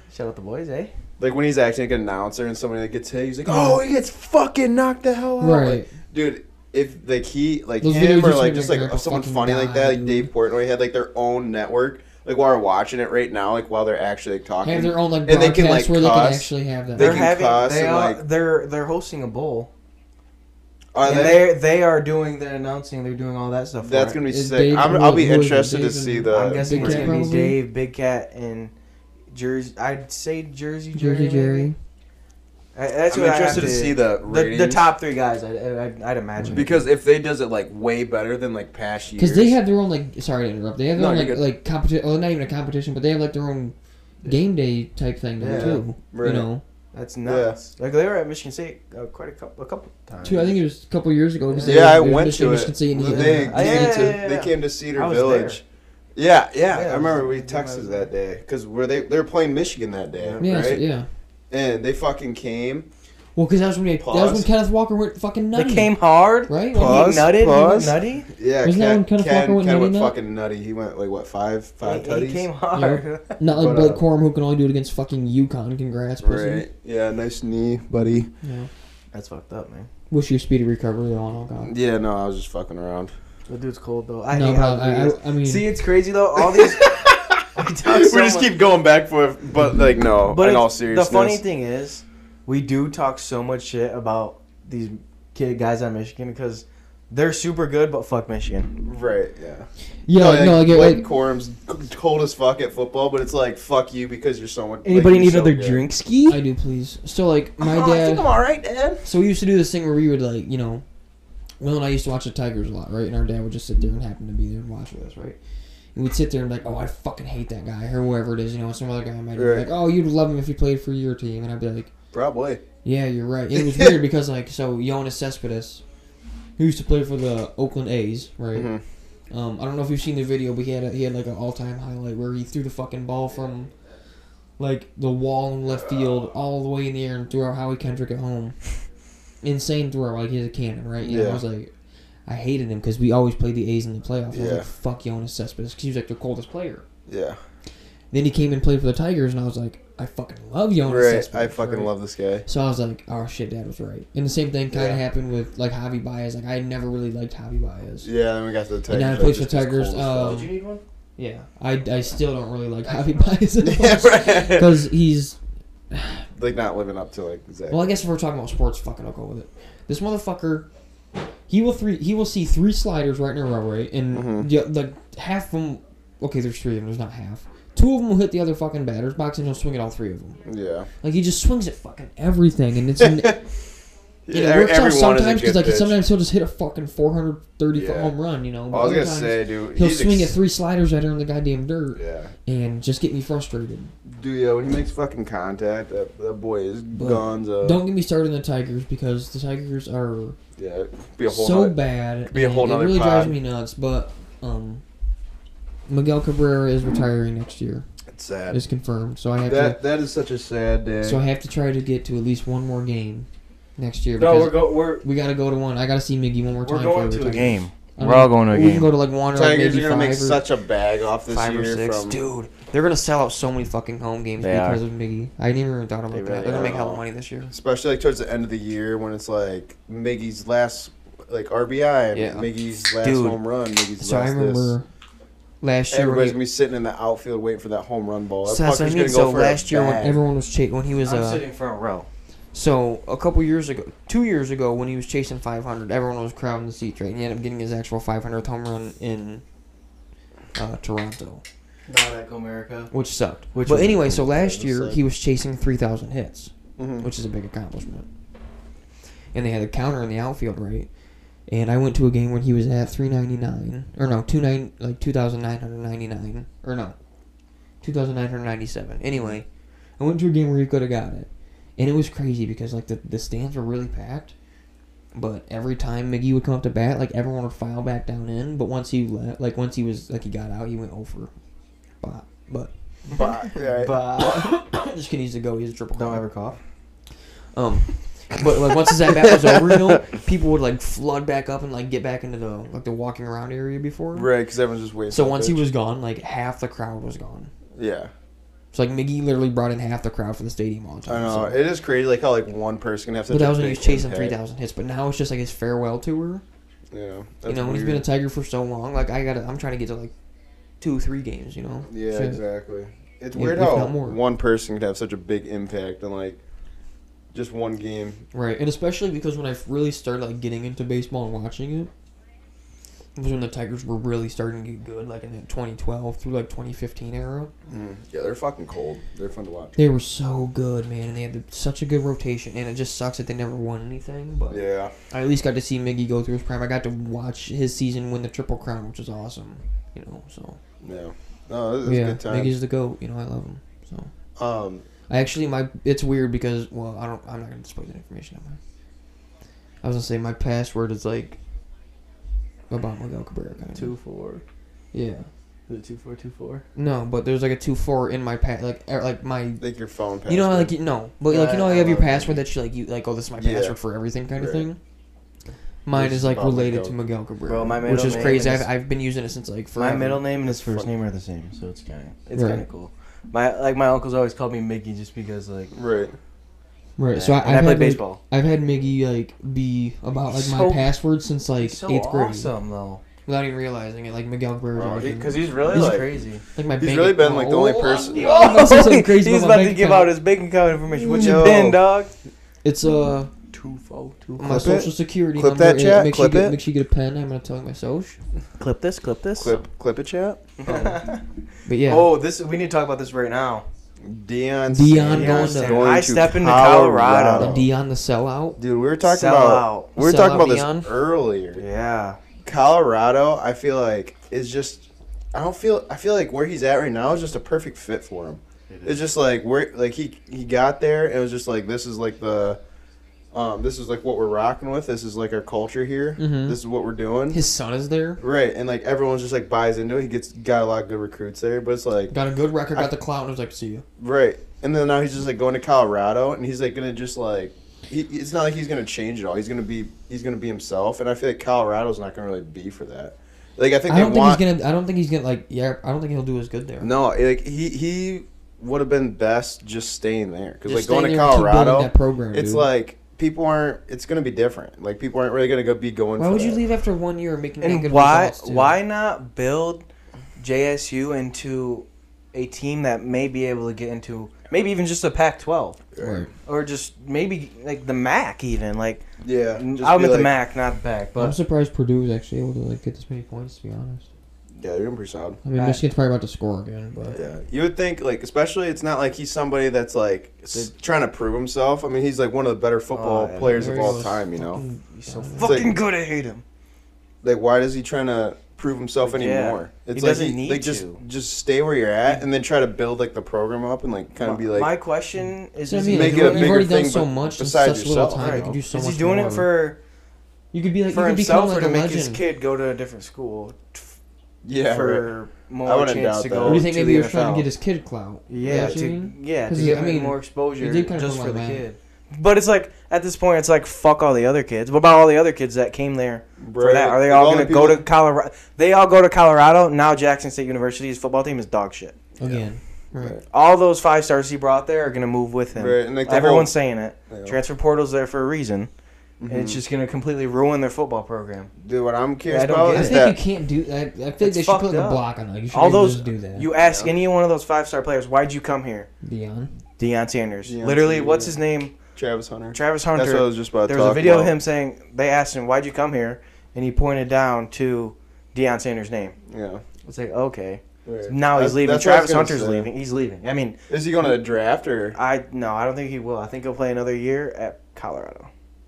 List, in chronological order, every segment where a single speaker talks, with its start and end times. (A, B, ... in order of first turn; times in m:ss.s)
0:00.1-0:00.9 A
0:01.2-0:18.2 B
0:03.5-0:03.8 C
0:05.4-0:05.9 C
0:07.8-0:10.3 C
0:14.6-0:17.2 C
0:17.0-0:19.7 A
0:20.9-0:21.5 B
0:21.0-0:24.2 A
0:23.8-0:27.2 B
0:24.3-0:27.6 C
0:26.3-0:28.7 A
0:29.3-0:31.7 A
0:30.9-0:31.8 C
0:32.7-0:36.8 A
0:33.1-0:34.9 B
0:36.5-0:39.6 B
0:39.2-0:46.6 C
0:40.9-0:41.5 B
0:45.4-0:45.8 A
0:45.4-0:46.5 B
0:46.9-0:50.6 A
0:47.2-0:47.6 B
0:50.2-0:54.2 C
0:51.5-0:51.9 A
0:51.6-0:55.6 B
0:53.0-0:55.6 A
0:56.2-1:00.8 B
0:56.7-0:58.1 A
1:00.2-1:00.5 A
1:00.4-1:01.1 C
1:01.5-1:02.8 B
1:03.3-1:05.9 C
1:04.0-1:04.5 B
1:05.5-1:08.3 A
1:06.5-1:07.1 C
1:06.7-1:12.5 B
1:08.6-1:10.1 C
1:11.8-1:13.4 A
1:12.7-1:16.7 C
1:13.5-1:14.0 B
1:16.2-1:18.3 B
1:18.4-1:18.7 C
1:19.1-1:19.9 A
1:20.1-1:21.7 C
1:21.6-1:23.1 B
1:23.5-1:28.5 A
1:24.3-1:25.7 C
1:26.5-1:31.4 B
1:30.3-1:38.7 A
1:38.8-1:45.8 B
1:40.0-1:41.1 C
1:44.8-1:46.4 A
1:46.3-1:48.3 C
1:47.6-1:49.0 B
1:49.0-1:50.8 C
1:51.6-1:55.4 C
1:55.9-2:01.9 C
1:59.3-1:59.7 B
2:02.1-2:02.6 B
2:02.8-2:05.8 C
2:03.6-2:03.9 B
2:06.6-2:08.8 C
2:08.5-2:08.8 B
2:09.3-2:13.7 C
2:14.6-2:18.8 C
2:19.4-2:21.7 C
2:21.0-2:21.4 B
2:22.2-2:26.8 C
2:24.3-2:24.7 B
2:27.1-2:27.4 B
2:28.1-2:31.9 C
2:30.8-2:32.4 B
2:32.4-2:38.1 C
2:34.7-2:35.0 B
2:38.0-2:40.5 B
2:38.9-2:40.5 C
2:40.2-2:40.8 A
2:41.2-2:45.4 C
2:43.6-2:44.8 B
2:45.9-2:46.2 C
2:46.4-2:48.0 B
2:47.7-2:50.7 C
2:51.5-3:00.4 C
2:54.1-2:54.5 B
3:00.4-3:00.9 B
3:01.0-3:03.4 C
3:03.0-3:03.3 B
3:04.2-3:06.0 B
3:04.3-3:13.9 C
3:07.7-3:08.1 B
3:08.7-3:10.4 B
3:12.0-3:12.3 B
3:14.0-3:17.8 B
3:16.9-3:20.4 C
3:20.6-3:23.4 B
3:21.2-3:24.8 C
3:25.9-3:27.8 C
3:28.1-3:28.6 B
3:28.5-3:29.8 C
3:29.4-3:31.2 B
3:31.0-3:40.4 C
3:34.2-3:35.0 A
3:36.6-3:38.9 A
3:39.3-3:42.2 B
3:41.3-3:47.5 C
3:44.4-3:44.8 A
3:46.1-3:46.7 A
3:46.4-3:54.7 B
3:52.1-3:53.4 C
3:54.0-3:54.8 C
3:55.6-3:56.4 C
3:55.9-4:00.2 B
3:58.4-4:01.4 C
4:01.0-4:02.1 A
4:02.5-4:09.4 C
4:10.5-4:11.4 C
4:11.9-4:12.9 A
4:12.9-4:18.1 C
4:13.5-4:14.0 A
4:13.8-4:15.0 B
4:16.8-4:17.1 B
4:19.3-4:20.9 C
4:21.5-4:27.0 C
4:27.8-4:29.4 C
4:30.0-4:34.3 C
4:35.1-4:41.3 C
4:42.0-4:43.3 C
4:43.1-4:43.9 B
4:43.1-4:44.6 A
4:44.2-4:46.3 C
4:46.0-4:46.6 A
4:47.5-4:54.3 C
4:49.2-4:50.0 B
4:54.1-4:55.6 B
4:55.1-4:57.5 C
4:57.7-4:58.1 B
4:58.7-5:01.6 C
5:01.1-5:04.4 B
5:03.3-5:06.4 C
5:06.9-5:08.0 B
5:07.4-5:10.1 C
5:10.8-5:12.4 C
5:11.9-5:16.4 B
5:13.3-5:14.2 C
5:17.3-5:18.2 B
5:18.3-5:21.9 C
5:23.2-5:27.5 C
5:27.7-5:29.8 B
5:29.8-5:40.6 C
5:34.5-5:34.9 B
5:40.8-5:42.5 B
5:41.8-5:44.1 C
5:44.4-5:44.8 B
5:45.1-5:48.6 C
5:49.8-5:51.4 C
5:52.7-5:54.0 C
5:53.7-5:54.4 A
5:54.9-5:55.3 C
5:55.7-5:56.6 A
5:56.8-5:59.6 C
5:59.6-6:00.7 B
6:00.3-6:04.8 C
6:01.3-6:02.4 A
6:03.4-6:03.8 B
6:04.4-6:04.7 B
6:05.8-6:10.2 C
6:05.9-6:06.9 B
6:07.5-6:08.7 A
6:09.8-6:15.7 A
6:10.4-6:10.9 B
6:12.3-6:12.6 C
6:15.7-6:16.1 B
6:17.0-6:22.5 C
6:17.1-6:18.2 A
6:20.3-6:20.9 A
6:21.6-6:23.0 A
6:23.2-6:25.9 C
6:24.7-6:26.1 B
6:25.2-6:26.4 A
6:26.5-6:30.1 C
6:26.8-6:28.3 B
6:28.1-6:32.1 A
6:31.0-6:31.8 B
6:32.6-6:33.3 C
6:33.5-6:34.7 A
6:34.4-6:38.2 C
6:34.4-6:36.6 B
6:38.6-6:39.6 A
6:39.4-6:40.9 B
6:40.6-6:41.2 A
6:41.6-6:42.1 C
6:41.9-6:43.6 A
6:44.0-6:47.7 B
6:44.7-6:45.9 C
6:45.1-6:47.5 A
6:47.4-6:48.6 C
6:48.6-6:51.6 B
6:49.0-6:50.0 A
6:50.0-6:50.9 C
6:51.5-6:52.2 A
6:52.4-7:02.6 B
6:58.7-6:59.0 A
7:03.3-7:07.4 B
7:06.2-7:06.6 C
7:07.3-7:08.2 C
7:08.2-7:12.1 B
7:12.1-7:13.8 C
7:14.0-7:24.4 B
7:23.9-7:26.9 C
7:26.8-7:36.6 B
7:30.6-7:32.7 C
7:36.2-7:38.8 C
7:37.6-7:39.8 A
7:40.4-7:45.9 A
7:45.9-7:46.3 B
7:46.0-7:46.3 C
7:46.4-7:49.0 A
7:49.2-7:50.3 B
7:49.6-7:51.4 A
7:51.2-7:54.1 C
7:54.5-7:55.4 B
7:55.4-7:57.2 C
7:55.5-7:55.8 A
7:57.1-8:04.6 B
8:02.9-8:04.0 A
8:03.5-8:05.7 C
8:05.0-8:06.4 A
8:05.4-8:05.8 B
8:07.2-8:14.7 B
8:09.0-8:11.0 A
8:14.2-8:16.6 A
8:15.6-8:19.5 C
8:15.9-8:18.5 B
8:18.2-8:19.8 A
8:20.5-8:22.2 C
8:20.9-8:24.0 A
8:24.4-8:25.1 B
8:24.6-8:27.2 A
8:25.6-8:27.5 B
8:26.4-8:31.6 C
8:28.3-8:42.0 A
8:28.4-8:28.8 B
8:36.4-8:37.8 B
8:42.2-8:42.4 B
8:42.2-8:43.2 C
8:43.3-8:48.7 A
8:45.5-8:46.5 B
8:47.1-8:47.4 B
8:49.2-8:49.6 B
8:49.2-8:51.5 A
8:51.6-8:53.2 B
8:52.3-8:53.1 A
8:52.7-8:56.5 C
8:54.2-8:58.9 A
8:56.6-8:57.0 B
8:59.0-8:59.5 C
8:59.8-9:01.7 A
9:00.4-9:01.4 B
9:01.9-9:04.3 B
9:02.5-9:09.1 A
9:09.3-9:09.6 B
9:09.8-9:13.6 A
9:10.8-9:12.7 B
9:13.7-9:15.0 B
9:14.9-9:18.3 A